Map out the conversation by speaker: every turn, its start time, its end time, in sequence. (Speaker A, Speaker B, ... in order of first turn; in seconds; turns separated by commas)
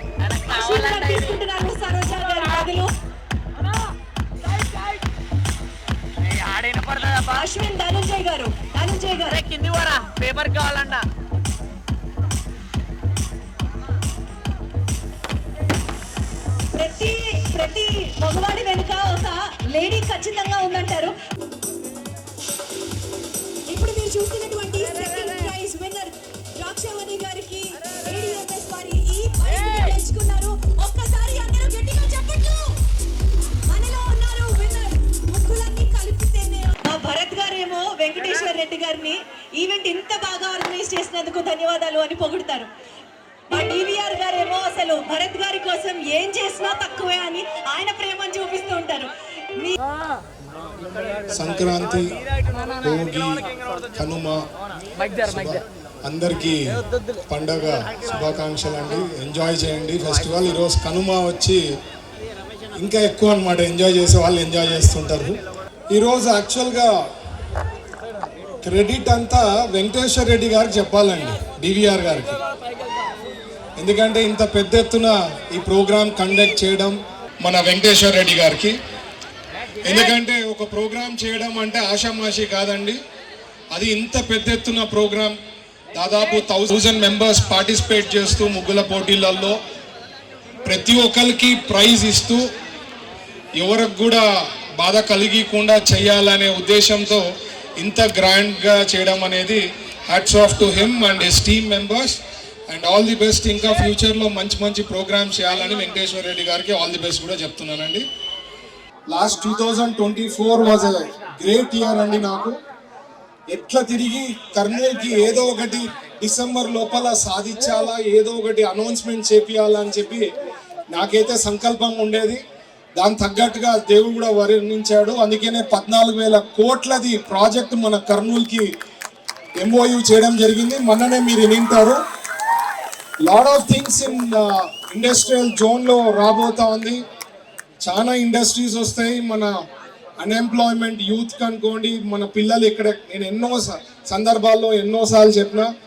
Speaker A: 0.2-1.4, Speaker B: 0.5-2.9, Speaker A: 6.3-7.4, Speaker B: 7.2-9.4, Speaker A: 9.3-11.0, Speaker B: 16.7-21.2, Speaker B: 23.7-32.6, Speaker B: 33.6-42.7, Speaker B: 43.5-49.8, Speaker C: 51.3-52.1, Speaker C: 52.8-53.4, Speaker C: 54.0-54.4, Speaker C: 55.2-56.6, Speaker C: 57.3-61.6, Speaker C: 62.8-65.4, Speaker C: 65.9-67.0, Speaker C: 68.6-72.4, Speaker C: 73.8-78.8, Speaker C: 79.8-83.0, Speaker C: 83.7-85.3, Speaker C: 85.9-89.6, Speaker C: 90.7-92.4, Speaker C: 93.5-97.2, Speaker C: 97.8-108.0, Speaker C: 109.1-112.6, Speaker C: 113.5-120.3, Speaker C: 120.9-122.4, Speaker C: 123.0-128.7, Speaker C: 129.6-132.0, Speaker C: 133.2-137.0, Speaker C: 137.8-139.5, Speaker C: 140.2-145.7